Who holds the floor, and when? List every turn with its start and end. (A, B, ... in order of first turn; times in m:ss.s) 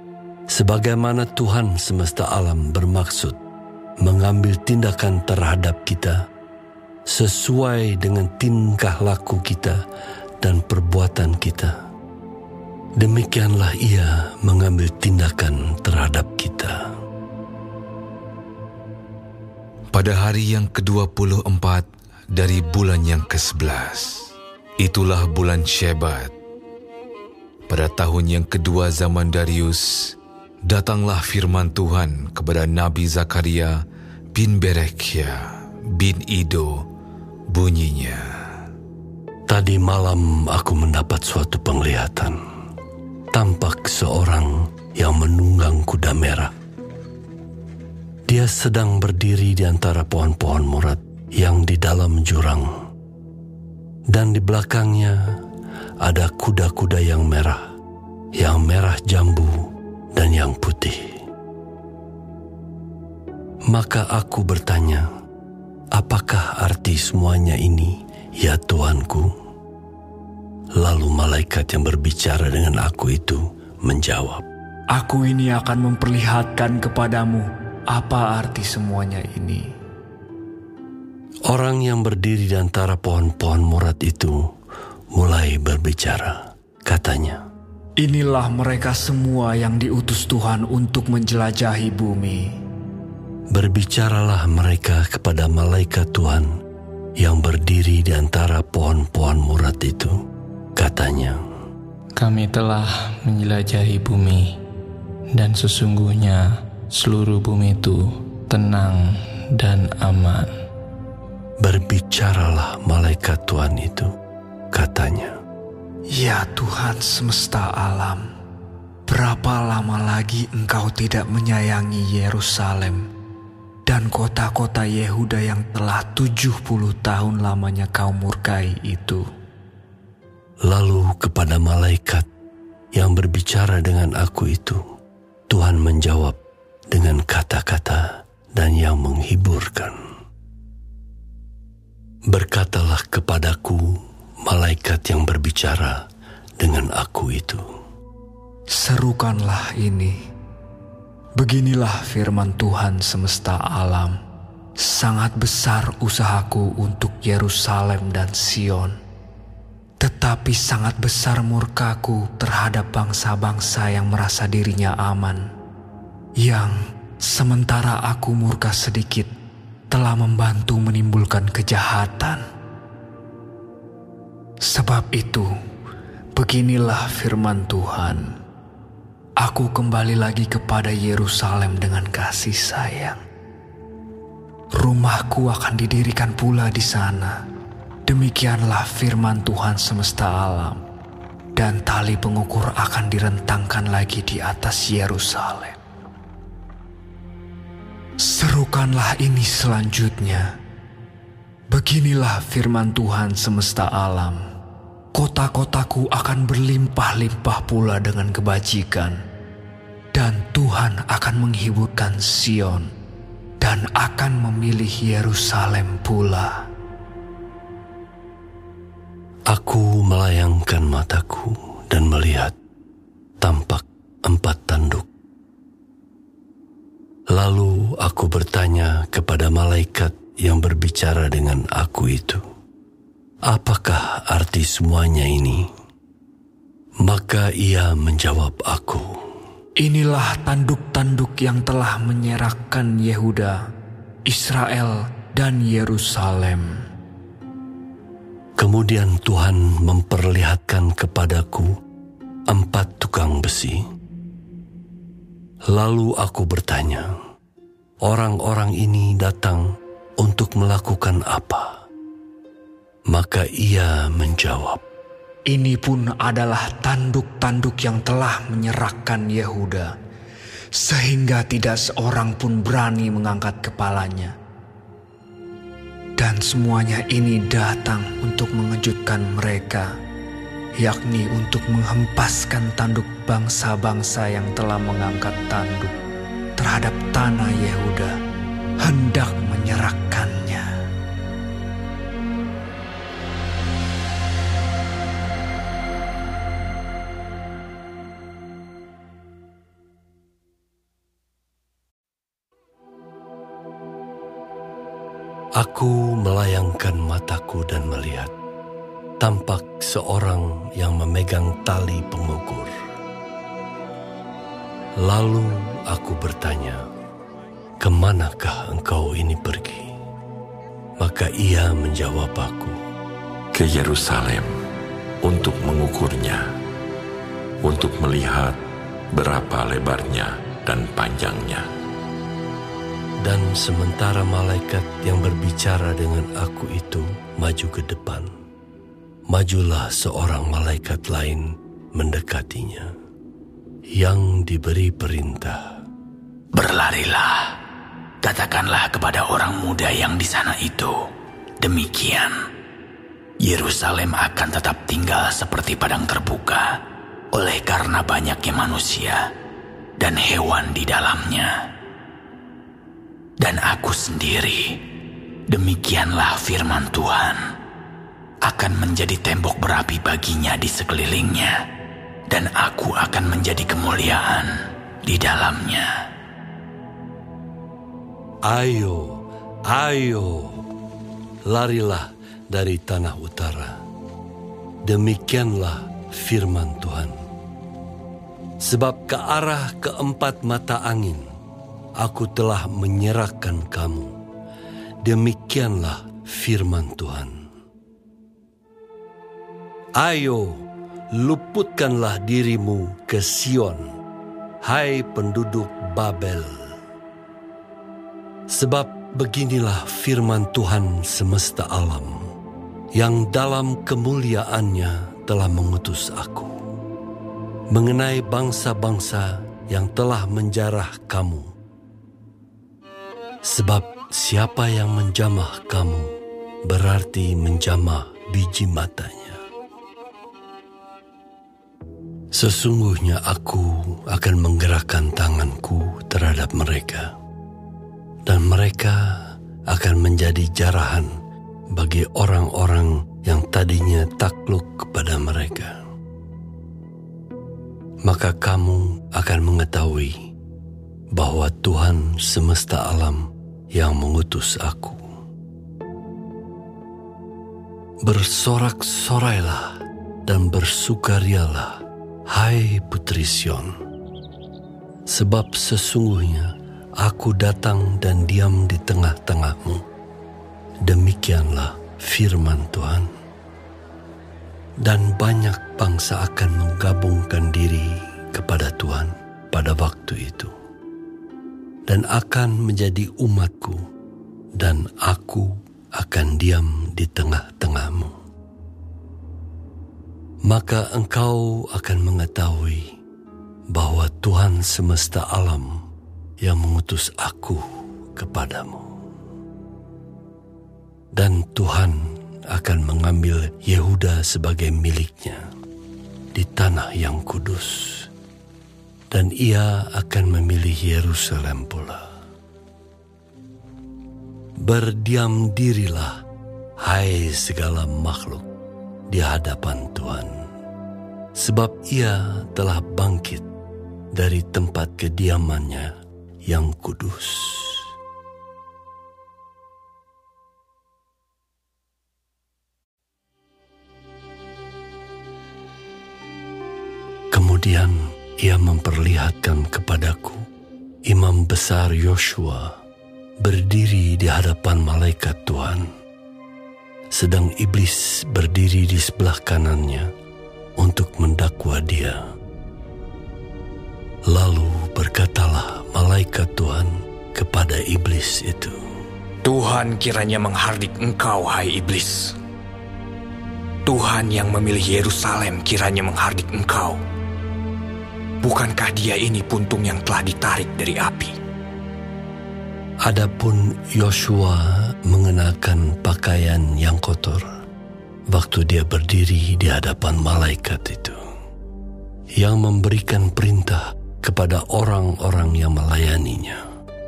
0:00.5-0:03.4 A
0:04.0-0:06.2 A
0:07.1-0:09.8 A
0:10.4-0:11.8 A
0:13.0-0:16.9 A
0:19.9-0:26.3 B
0:27.7-0:30.1 B
0:30.6-0:33.8 B
0:34.3-0:36.8 B
0:37.5-0:38.3 B
0:39.5-0:42.4 A
0:43.3-0:46.5 A
0:48.3-0:52.8 A
0:54.1-0:55.4 A
0:56.0-0:57.7 A
0:58.4-1:01.2 A
1:03.7-1:05.1 A
1:05.9-1:09.3 A
1:10.8-1:14.5 A
1:14.9-1:19.6 C
1:21.5-1:24.4 A
1:25.1-1:27.4 A
1:28.0-1:32.5 C
1:33.5-1:36.6 A
1:37.2-1:40.2 A
1:40.8-1:41.4 A
1:42.2-1:44.6 D
1:45.3-1:50.5 D
1:51.6-1:54.1 A
1:54.7-1:55.4 A
1:56.1-1:58.2 C
1:59.1-2:03.0 C
2:03.9-2:09.2 C
2:10.6-2:12.3 A
2:12.9-2:14.8 A
2:15.5-2:16.4 A
2:16.9-2:20.0 A
2:22.3-2:23.9 A
2:24.4-2:26.0 A
2:26.6-2:27.6 A
2:28.7-2:30.2 C
2:31.4-2:34.2 C
2:34.8-2:38.9 C
2:40.0-2:45.4 C
2:46.4-2:49.3 C
2:49.9-2:52.4 C
2:54.6-2:55.5 C
2:56.4-2:58.2 C
2:59.4-3:03.2 C
3:04.8-3:07.4 C
3:08.1-3:10.8 C
3:11.6-3:15.8 C
3:18.2-3:20.4 C
3:21.7-3:24.4 C
3:25.1-3:29.1 C
3:30.1-3:32.8 C
3:33.6-3:36.5 C
3:39.5-3:42.6 A
3:43.4-3:45.1 A
3:47.3-3:52.4 A
3:53.5-3:55.7 A
3:57.0-3:59.2 A
3:59.8-4:03.6 C
4:04.3-4:06.7 C
4:08.6-4:11.7 A
4:12.5-4:13.8 A
4:15.7-4:17.1 A
4:18.0-4:19.6 A
4:20.2-4:21.8 A
4:23.1-4:24.8 A
4:25.5-4:29.9 C
4:30.8-4:34.3 C
4:36.2-4:39.9 C
4:40.8-4:45.9 C
4:46.6-4:48.1 C
4:48.8-4:50.7 C
5:05.6-5:08.3 A
5:09.2-5:12.7 A
5:15.0-5:16.8 A
5:17.8-5:19.9 A
5:21.0-5:22.8 A
5:23.5-5:24.5 E
5:25.2-5:26.4 E
5:27.6-5:28.6 E
5:29.1-5:31.6 E
5:33.2-5:38.3 A
5:39.3-5:42.9 A
5:43.9-5:45.8 A
5:46.5-5:47.5 F
5:48.2-5:51.0 F
5:51.6-5:52.3 F
5:53.4-5:56.8 F
5:57.3-5:59.3 F
6:00.0-6:01.5 F
6:03.4-6:04.8 F
6:05.5-6:07.4 F
6:08.4-6:11.6 F
6:12.3-6:14.5 F
6:15.0-6:15.9 F
6:18.5-6:20.6 A
6:21.5-6:23.8 A
6:24.8-6:27.2 A
6:28.6-6:31.3 A
6:32.0-6:34.2 A
6:35.0-6:37.5 A
6:40.0-6:43.9 A
6:44.6-6:46.7 A
6:48.5-6:52.3 A
6:52.9-6:56.5 A
6:57.7-7:01.5 A
7:03.4-7:06.1 A
7:06.6-7:09.4 A
7:12.3-7:17.1 A
7:18.2-7:21.1 A
7:21.7-7:25.8 A
7:28.0-7:30.3 A
7:31.1-7:35.0 A
7:38.0-7:43.8 A
7:45.1-7:49.8 A
7:50.8-7:53.1 A
7:54.8-8:00.5 A
8:01.9-8:03.8 A
8:04.6-8:08.1 A
8:10.5-8:12.9 A
8:13.7-8:15.8 A
8:16.4-8:18.9 A
8:21.1-8:25.5 A
8:26.3-8:28.1 A
8:29.1-8:32.1 A
8:34.6-8:36.2 A
8:36.8-8:38.5 A
8:39.1-8:40.5 A
8:41.3-8:43.5 A
8:44.1-8:47.9 A
8:57.3-9:00.4 A
9:01.0-9:02.8 A
9:03.4-9:05.9 A
9:07.1-9:10.1 A
9:10.8-9:12.2 A
9:14.3-9:18.8 A
9:19.4-9:22.3 G
9:23.8-9:27.0 G
9:28.4-9:31.3 G
9:33.0-9:37.5 A
9:38.3-9:41.2 A
9:42.4-9:46.6 A